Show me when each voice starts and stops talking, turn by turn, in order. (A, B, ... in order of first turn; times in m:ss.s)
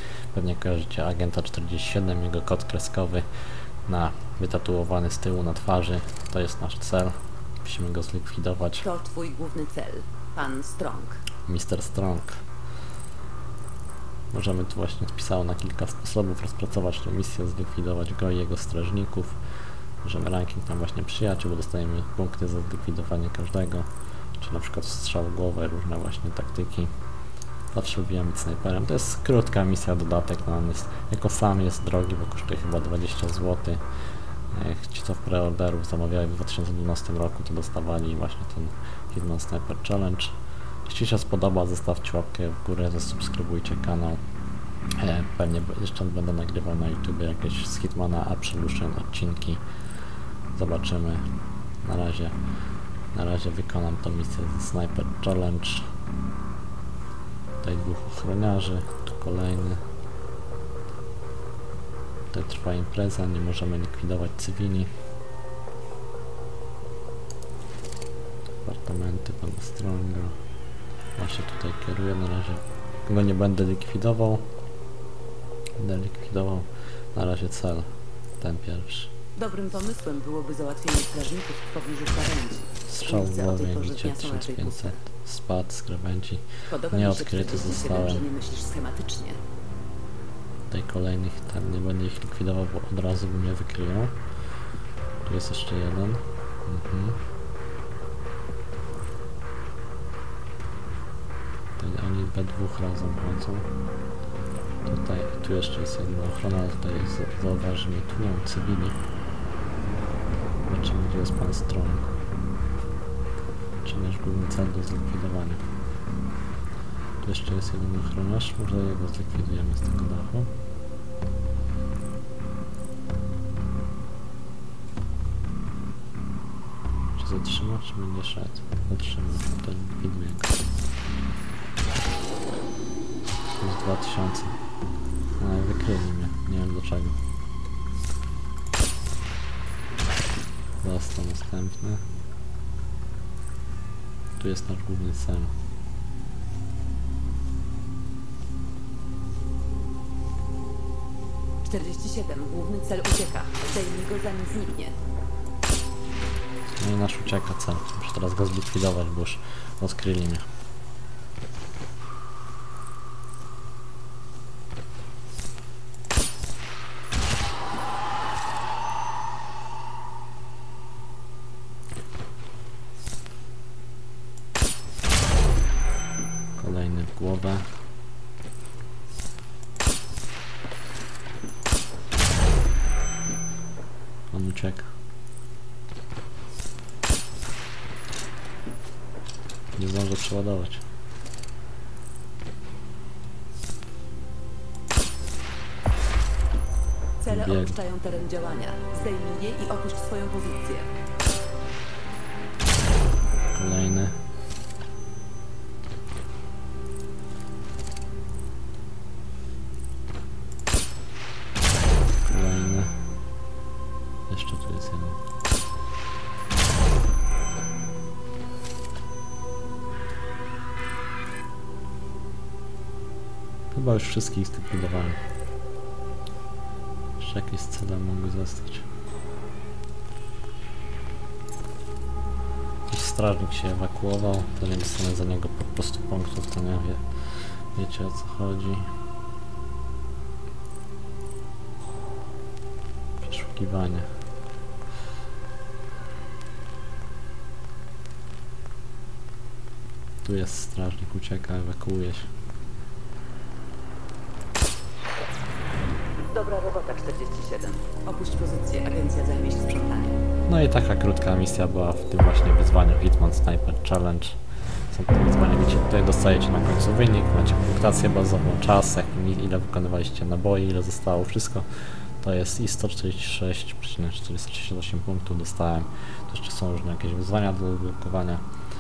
0:00.3-0:03.2 A
0:03.9-0:08.9 A
0:08.8-0:11.2 B
0:11.5-0:12.4 A
0:14.3-0:19.4 A
0:20.0-0:26.9 A
0:27.7-0:33.8 A
0:34.5-0:44.2 A
0:45.0-0:49.6 A
0:50.6-0:51.2 A
0:51.8-0:52.4 A
0:53.1-0:55.9 A
0:57.6-0:59.8 A
1:02.3-1:04.9 A
1:08.6-1:10.4 A
1:11.2-1:14.4 A
1:15.8-1:19.1 A
1:19.4-1:25.0 B
1:22.9-1:28.2 A
1:26.7-1:29.4 B
1:30.7-1:34.2 A
1:35.2-1:37.2 A
1:41.8-1:43.7 A
1:44.9-1:49.0 A
1:50.7-1:52.1 A
1:53.8-1:55.6 A
1:57.2-2:00.5 A
2:07.2-2:10.6 A
2:13.5-2:14.6 A
2:15.4-2:17.2 A
2:20.8-2:22.0 A
2:24.4-2:25.5 A
2:31.6-2:35.0 B
2:36.7-2:40.4 A
2:56.6-2:57.6 A
3:04.3-3:04.9 A
3:09.8-3:10.8 A
3:17.2-3:20.9 B
3:17.3-3:17.8 A
3:23.5-3:24.2 A
3:32.2-3:33.1 A
3:34.3-3:35.2 A
3:43.7-3:45.2 A
3:47.2-3:48.9 A
3:52.9-3:58.9 A
4:03.2-4:04.1 A
4:10.2-4:12.3 A
4:16.3-4:20.2 B
4:20.5-4:24.4 A
4:24.9-4:31.7 A
4:32.2-4:38.4 A